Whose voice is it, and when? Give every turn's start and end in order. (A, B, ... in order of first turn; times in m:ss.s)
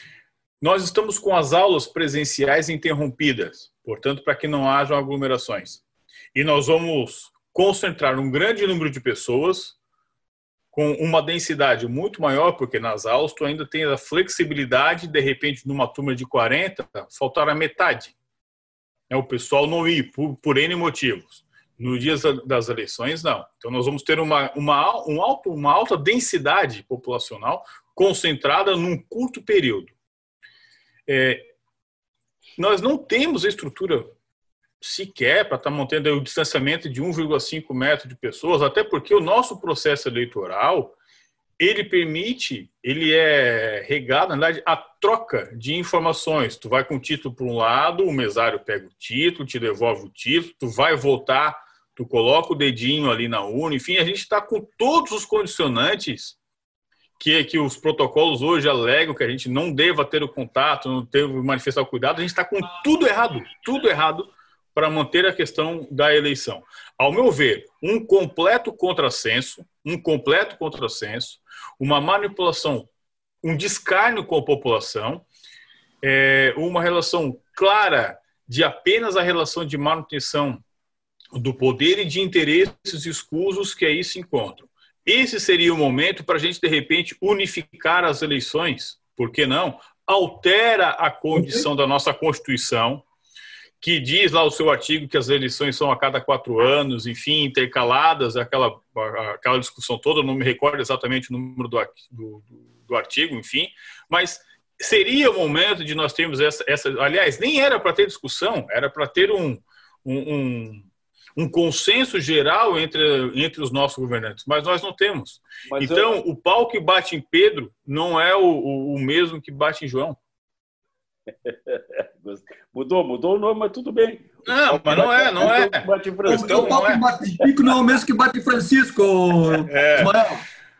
0:00.6-0:05.8 A
0:06.3-0:09.8 A
0:10.7-0:18.1 A
0:19.1-0:29.9 A
0:31.1-0:31.5 A
0:32.6-0:34.1 A
0:34.8-0:41.0 A
0:41.6-0:56.4 A
0:57.2-1:12.9 A
1:13.4-1:15.2 A
1:16.0-1:20.6 A
1:21.3-1:33.0 A
1:31.3-1:31.7 B
1:33.8-2:00.2 A
1:55.7-1:56.2 C
2:01.4-2:06.8 C
2:04.5-2:07.0 A
2:06.2-2:10.4 B
2:09.7-2:10.1 A